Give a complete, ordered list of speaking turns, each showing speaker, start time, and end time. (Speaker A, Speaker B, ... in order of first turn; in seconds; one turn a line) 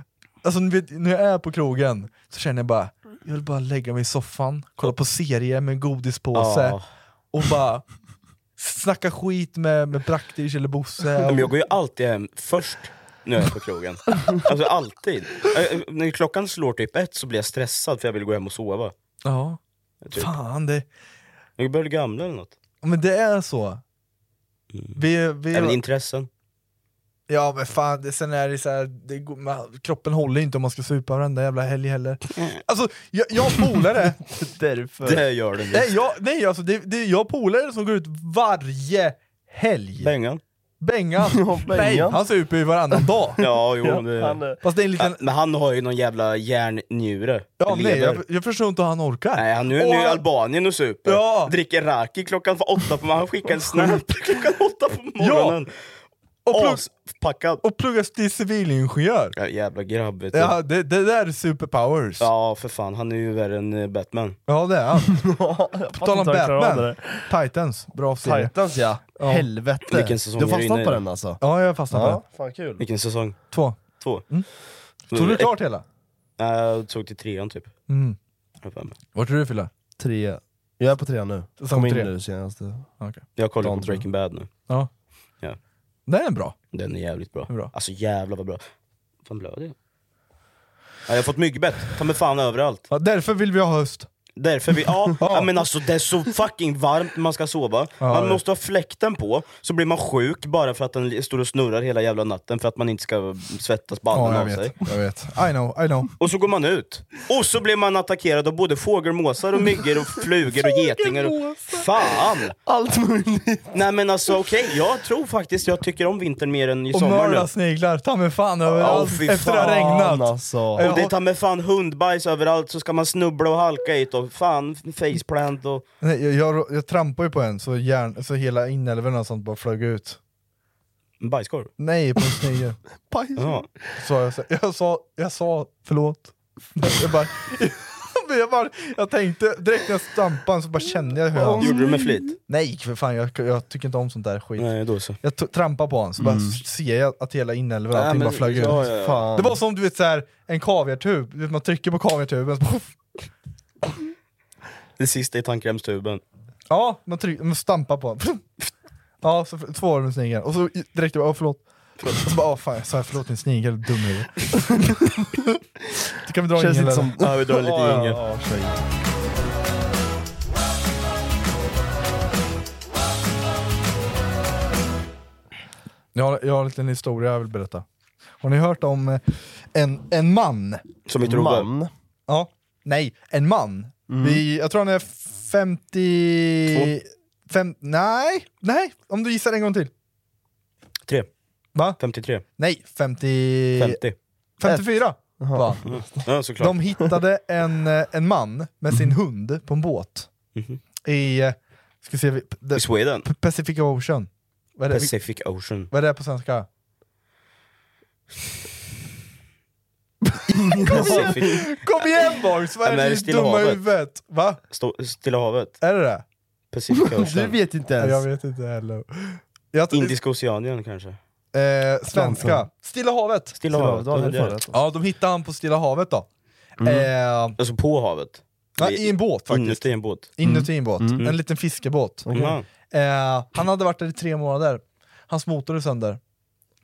Speaker A: 0.4-6.8
Speaker B: 6.3-6.8
Speaker A: 7.3-7.8
Speaker A: 8.6-11.5
Speaker B: 11.2-18.9
Speaker A: 19.2-19.6
Speaker B: 20.0-20.3
Speaker A: 20.1-20.9
Speaker B: 21.6-22.6
Speaker A: 22.8-23.8
Speaker A: 24.9-25.8
Speaker B: 25.5-26.3
Speaker A: 27.3-34.2
Speaker C: 34.2-35.2
Speaker B: 35.0-35.9
Speaker A: 35.7-40.1
Speaker B: 40.0-40.4
Speaker A: 40.8-43.4
Speaker C: 41.3-42.2
Speaker C: 42.9-44.6
Speaker B: 43.4-44.4
Speaker A: 44.6-45.2
Speaker B: 45.0-48.2
Speaker A: 47.6-50.2
Speaker B: 49.4-55.7
Speaker A: 51.1-51.5
Speaker A: 53.7-53.9
Speaker A: 55.2-55.6
Speaker A: 56.5-56.8
Speaker B: 56.5-57.6
Speaker A: 57.6-59.3
Speaker B: 59.4-60.6
Speaker A: 60.3-62.3
Speaker B: 62.2-64.4
Speaker A: 64.5-65.2
Speaker C: 65.1-67.3
Speaker A: 65.9-68.5
Speaker C: 68.2-72.8
Speaker A: 69.2-69.5
Speaker B: 69.9-71.0
Speaker A: 71.4-72.2
Speaker B: 72.8-73.4
Speaker A: 73.5-74.5
Speaker B: 74.0-74.2
Speaker B: 75.1-75.6
Speaker A: 75.1-75.8
Speaker B: 76.4-77.7
Speaker A: 77.9-78.2
Speaker B: 78.6-79.0
Speaker A: 79.1-79.7
Speaker C: 80.0-82.9
Speaker A: 81.6-82.1
Speaker B: 83.4-84.5
Speaker C: 83.6-84.0
Speaker A: 86.1-86.5
Speaker B: 86.7-88.6
Speaker B: 89.3-89.7
Speaker B: 91.1-92.9
Speaker A: 92.9-94.1
Speaker B: 94.4-104.8
Speaker A: 95.2-95.5
Speaker A: 98.0-98.4
Speaker A: 104.1-106.1
Speaker B: 106.2-112.6
Speaker A: 110.6-111.8
Speaker C: 112.7-113.7
Speaker B: 113.7-117.5
Speaker A: 116.9-121.1
Speaker C: 118.7-120.9
Speaker B: 118.8-120.0
Speaker B: 120.8-125.8
Speaker A: 126.0-130.2
Speaker B: 131.2-131.7
Speaker A: 131.8-132.8
Speaker C: 133.1-133.8
Speaker B: 133.4-133.7
Speaker A: 134.0-141.7
Speaker C: 141.3-142.3
Speaker B: 141.6-142.4
Speaker A: 142.5-144.7
Speaker B: 144.6-145.2
Speaker A: 145.2-152.9
Speaker C: 146.2-146.6
Speaker B: 147.9-149.3
Speaker C: 148.6-149.6
Speaker B: 155.0-156.2
Speaker A: 156.7-158.4
Speaker A: 159.2-165.4
Speaker A: 166.2-167.1
Speaker C: 166.5-168.8
Speaker B: 167.2-168.2
Speaker A: 176.2-177.8
Speaker A: 178.4-180.8
Speaker B: 181.1-181.7
Speaker C: 181.2-181.9
Speaker A: 182.3-189.9
Speaker C: 184.1-184.4
Speaker B: 192.0-192.4
Speaker A: 192.6-194.0
Speaker B: 193.8-194.2
Speaker A: 194.6-195.8
Speaker C: 195.4-196.3
Speaker B: 195.9-196.8
Speaker A: 196.6-200.3
Speaker B: 200.6-200.8
Speaker A: 201.1-205.1
Speaker B: 202.8-203.3
Speaker B: 204.9-205.9
Speaker A: 205.9-206.7
Speaker C: 210.7-211.6
Speaker A: 210.7-214.6
Speaker B: 210.9-213.8
Speaker B: 214.7-215.8
Speaker A: 215.8-216.2
Speaker B: 216.7-217.6
Speaker C: 216.9-218.2
Speaker A: 218.0-220.2
Speaker B: 219.9-221.2
Speaker A: 221.5-223.6
Speaker C: 222.1-222.7
Speaker B: 223.6-224.6
Speaker C: 223.7-224.8
Speaker A: 224.2-226.3
Speaker C: 226.8-227.1
Speaker A: 226.8-227.6
Speaker B: 227.6-230.5
Speaker A: 228.8-232.3
Speaker C: 230.4-231.2
Speaker C: 232.3-232.6
Speaker B: 232.3-232.7
Speaker A: 232.9-236.2